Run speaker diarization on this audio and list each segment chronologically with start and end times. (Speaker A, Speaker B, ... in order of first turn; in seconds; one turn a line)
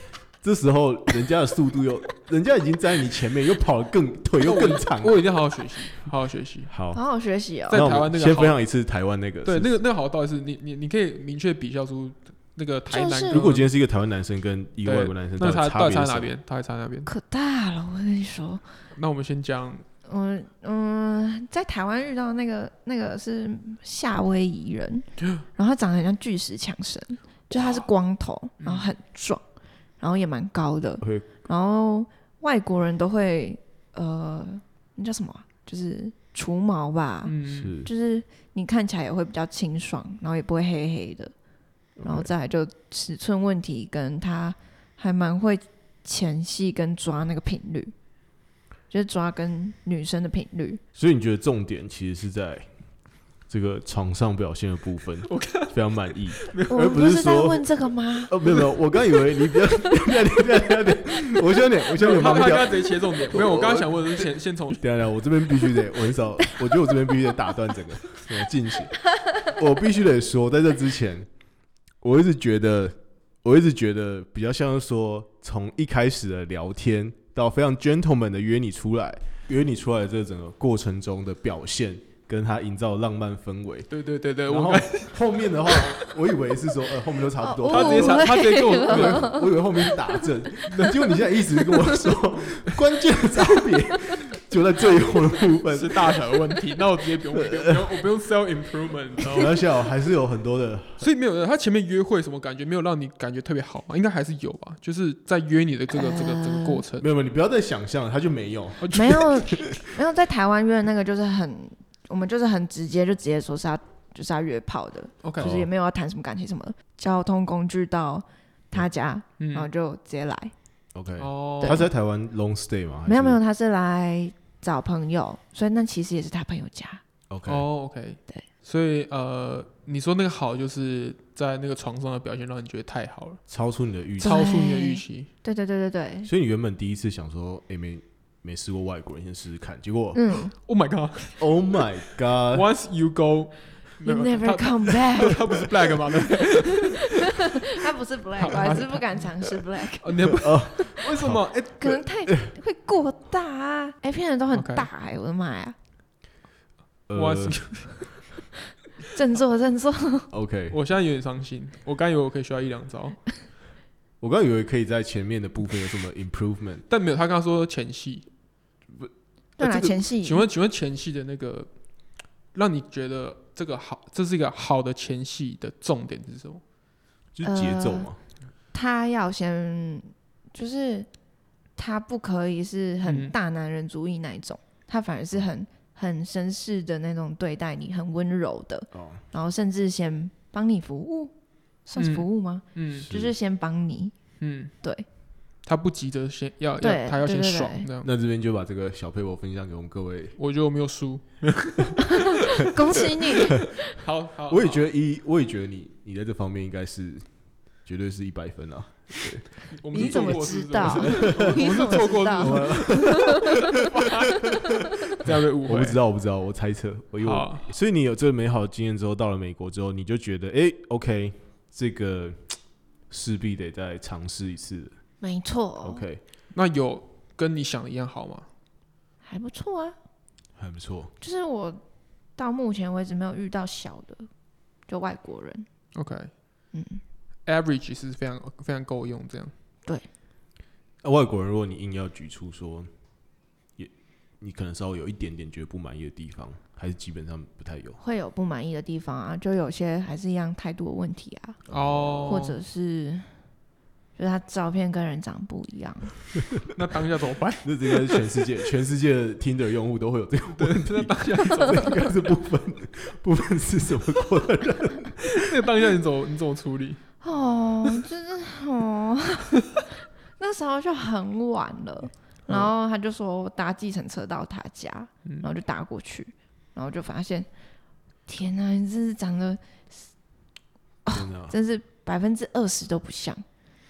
Speaker A: 0.4-5.2
Speaker B: 4.4-6.7
Speaker A: 6.7-7.0
Speaker C: 6.9-7.8
Speaker B: 7.7-8.6
Speaker A: 7.7-9.7
Speaker B: 9.4-13.7
Speaker C: 12.9-13.4
Speaker A: 13.3-16.4
Speaker B: 14.8-17.1
Speaker C: 17.1-18.6
Speaker B: 18.9-19.9
Speaker C: 20.1-29.4
Speaker B: 28.6-28.9
Speaker C: 30.0-41.3
Speaker A: 31.0-31.3
Speaker B: 37.2-37.7
Speaker A: 37.5-37.9
Speaker A: 42.0-42.3
Speaker C: 42.0-47.9
Speaker C: 48.9-50.8
Speaker A: 51.0-52.7
Speaker A: 53.5-57.7
Speaker B: 55.3-55.8
Speaker B: 56.4-57.0
Speaker C: 56.7-58.4
Speaker A: 58.3-71.3
Speaker B: 61.9-64.8
Speaker A: 72.0-83.9
Speaker B: 83.9-85.9
Speaker A: 84.5-96.2
Speaker C: 87.4-90.2
Speaker B: 87.7-89.4
Speaker B: 90.7-91.0
Speaker C: 91.7-92.1
Speaker B: 94.8-99.6
Speaker A: 97.5-97.8
Speaker A: 99.3-101.0
Speaker B: 101.0-107.1
Speaker C: 105.9-106.8
Speaker A: 107.0-109.3
Speaker B: 108.8-109.7
Speaker C: 108.9-120.5
Speaker B: 115.2-115.5
Speaker A: 115.4-115.7
Speaker B: 119.4-119.7
Speaker A: 121.0-123.4
Speaker B: 121.2-121.8
Speaker C: 121.6-121.9
Speaker C: 123.1-127.0
Speaker A: 127.3-127.7
Speaker B: 127.5-133.4
Speaker A: 133.5-134.5
Speaker B: 134.2-135.3
Speaker C: 134.2-136.3
Speaker A: 136.2-140.2
Speaker C: 140.1-140.5
Speaker B: 140.6-141.4
Speaker A: 141.4-142.7
Speaker B: 142.5-147.3
Speaker C: 144.1-145.7
Speaker C: 147.0-150.3
Speaker B: 148.4-149.3
Speaker B: 150.0-152.0
Speaker A: 150.4-151.4
Speaker C: 151.8-155.8
Speaker B: 154.5-154.9
Speaker A: 157.1-157.9
Speaker B: 157.2-158.1
Speaker C: 159.1-160.3
Speaker A: 160.3-160.8
Speaker B: 160.7-163.2
Speaker A: 164.2-166.8
Speaker B: 166.9-168.3
Speaker C: 169.6-170.4
Speaker A: 169.6-169.9
Speaker B: 169.6-171.7
Speaker B: 172.5-176.6
Speaker A: 177.4-178.2
Speaker C: 177.4-178.1
Speaker C: 178.7-181.1
Speaker C: 181.8-191.3
Speaker B: 183.1-183.3
Speaker A: 188.9-189.2
Speaker C: 191.9-194.1
Speaker B: 192.0-193.1
Speaker A: 193.1-193.3
Speaker B: 194.4-194.7
Speaker B: 195.7-198.1
Speaker C: 196.8-197.9
Speaker A: 198.0-200.4
Speaker B: 200.4-204.8
Speaker C: 202.4-203.7
Speaker A: 204.5-207.3
Speaker A: 207.8-213.7
Speaker B: 209.7-216.0
Speaker C: 209.9-213.4
Speaker A: 215.2-225.0
Speaker B: 217.2-217.7
Speaker C: 225.2-226.0
Speaker A: 225.8-226.2
Speaker B: 226.5-228.5
Speaker C: 229.3-230.0
Speaker A: 230.6-231.1
Speaker C: 231.2-231.8
Speaker C: 232.4-234.3
Speaker C: 234.9-235.7
Speaker B: 235.9-236.3
Speaker C: 236.7-237.0
Speaker B: 237.5-239.5
Speaker A: 241.0-242.9
Speaker A: 243.8-248.0
Speaker C: 248.0-251.6
Speaker A: 251.7-252.5
Speaker B: 251.7-252.6
Speaker C: 252.3-253.3
Speaker C: 254.2-256.2
Speaker B: 256.7-258.2
Speaker A: 257.6-265.4
Speaker B: 260.5-262.2
Speaker B: 265.2-267.0
Speaker C: 267.2-269.6
Speaker C: 270.4-277.5
Speaker C: 278.3-280.1
Speaker C: 281.1-283.4
Speaker A: 281.1-281.6